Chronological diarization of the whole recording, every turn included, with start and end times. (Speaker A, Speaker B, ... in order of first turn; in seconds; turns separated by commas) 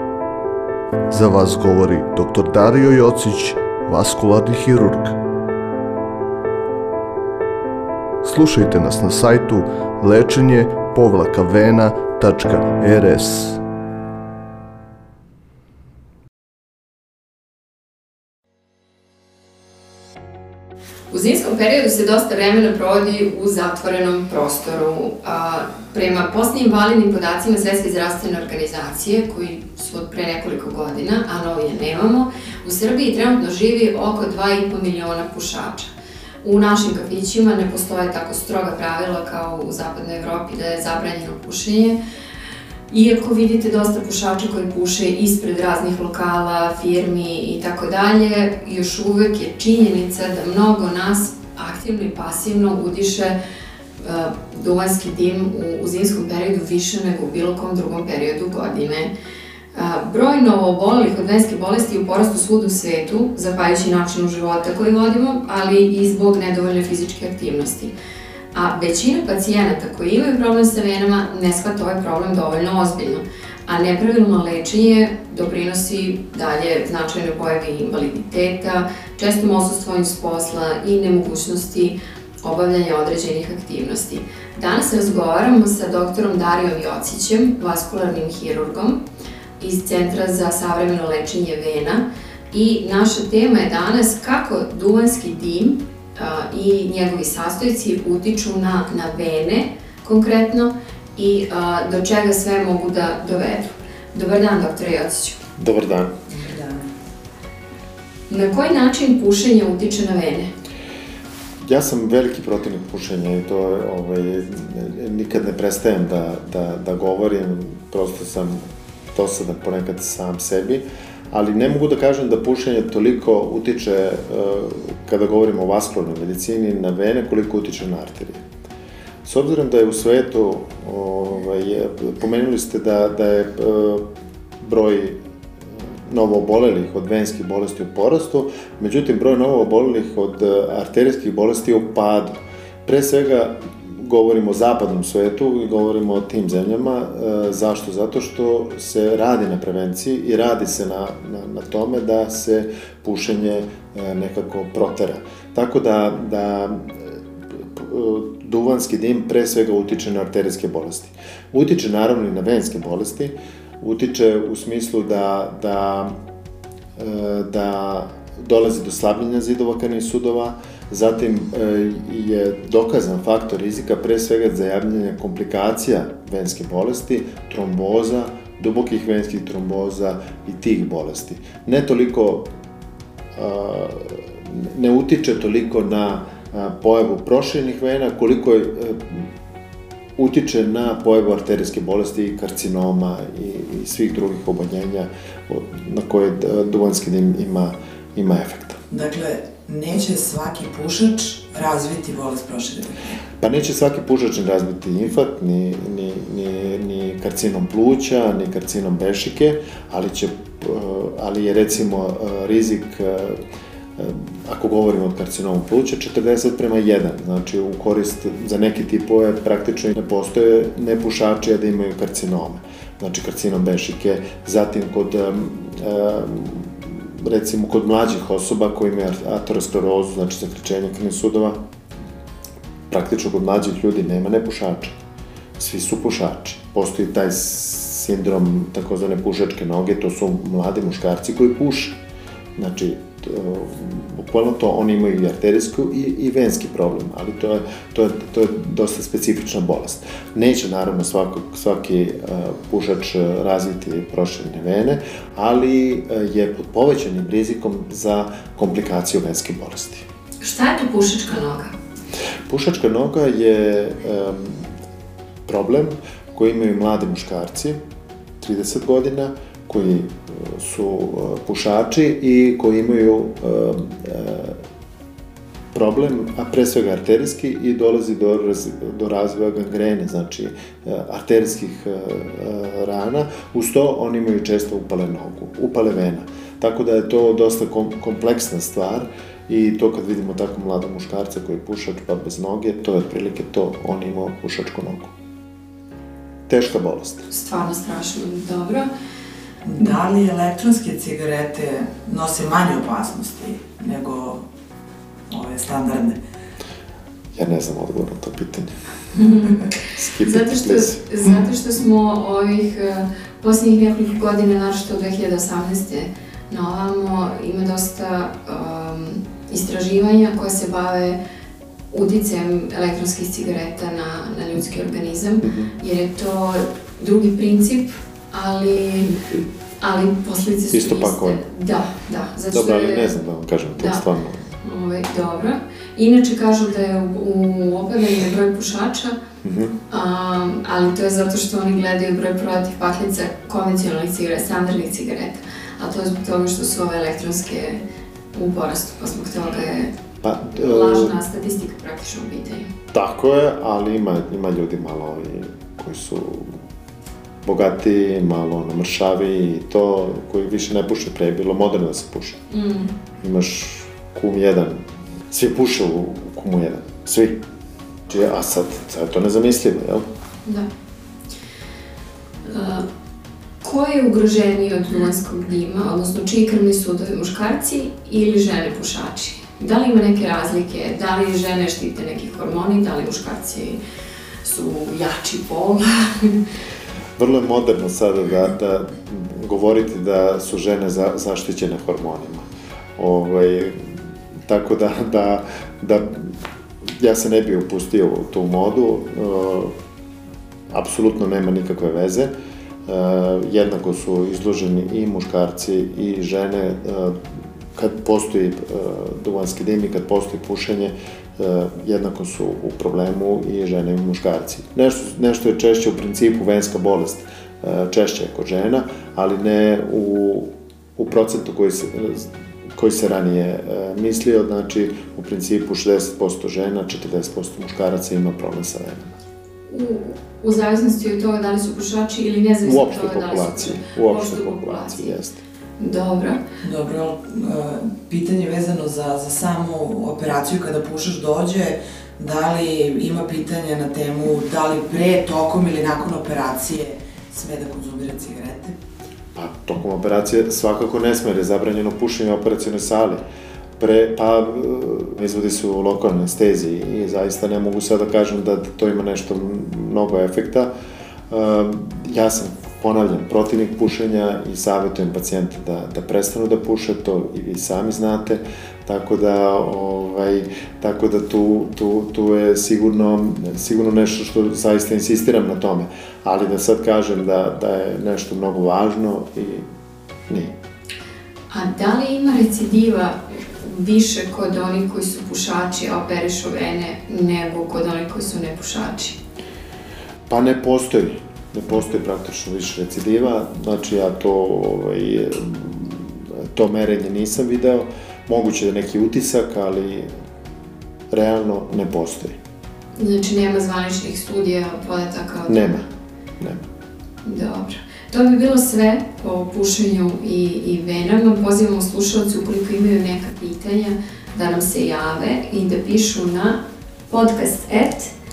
Speaker A: 1.1-5.2, Speaker A: 8.2-13.6, Speaker B: 21.1-35.9, Speaker B: 36.4-42.0, Speaker B: 42.9-53.4, Speaker B: 54.0-59.1, Speaker B: 59.7-67.9, Speaker B: 68.5-89.0, Speaker B: 89.6-105.4, Speaker C: 105.6-106.1, Speaker D: 106.3-106.9, Speaker B: 108.3-110.5, Speaker C: 111.7-118.6, Speaker C: 119.1-128.4, Speaker C: 129.2-134.0, Speaker C: 134.6-135.2, Speaker C: 136.1-166.1, Speaker C: 167.0-182.5, Speaker C: 183.3-189.2, Speaker C: 190.2-198.8, Speaker D: 198.9-203.2, Speaker C: 203.4-213.4, Speaker C: 214.0-231.6, Speaker C: 232.9-235.0, Speaker C: 235.6-242.0, Speaker C: 242.6-260.0, Speaker B: 260.4-261.7, Speaker C: 262.5-264.7, Speaker C: 265.5-267.8, Speaker C: 268.4-274.6, Speaker C: 275.7-295.1, Speaker C: 296.5-297.3, Speaker B: 297.3-298.9, Speaker D: 299.6-304.4, Speaker D: 305.3-306.2, Speaker C: 307.4-308.7, Speaker B: 309.1-309.6, Speaker C: 309.9-311.0, Speaker B: 310.2-321.2, Speaker B: 321.9-329.1, Speaker C: 325.4-325.7, Speaker B: 329.8-333.1, Speaker C: 330.7-331.4, Speaker C: 332.5-334.5, Speaker B: 333.8-334.1, Speaker B: 334.6-339.2, Speaker C: 339.4-339.7, Speaker B: 339.9-347.8, Speaker B: 348.3-349.9, Speaker C: 350.2-351.1, Speaker B: 350.5-352.7, Speaker C: 352.9-356.5, Speaker C: 357.4-362.4, Speaker B: 362.5-362.9, Speaker C: 363.2-364.8, Speaker C: 365.3-367.4, Speaker C: 368.1-370.1, Speaker B: 372.4-372.8, Speaker B: 373.6-383.8, Speaker B: 384.4-386.4, Speaker C: 387.2-392.5, Speaker C: 393.0-393.8, Speaker C: 394.5-396.3, Speaker C: 397.0-399.7, Speaker C: 400.7-402.3, Speaker C: 402.9-407.2, Speaker C: 407.8-429.1, Speaker B: 429.7-435.2, Speaker C: 432.6-435.4, Speaker B: 435.8-436.4, Speaker D: 436.6-448.8, Speaker C: 449.4-453.2, Speaker C: 453.8-460.7, Speaker C: 461.3-479.6, Speaker C: 480.3-480.5, Speaker B: 481.5-489.2, Speaker C: 490.3-500.1, Speaker C: 501.1-502.4, Speaker B: 503.0-505.8, Speaker C: 505.5-505.8, Speaker B: 507.2-516.6, Speaker B: 517.1-518.1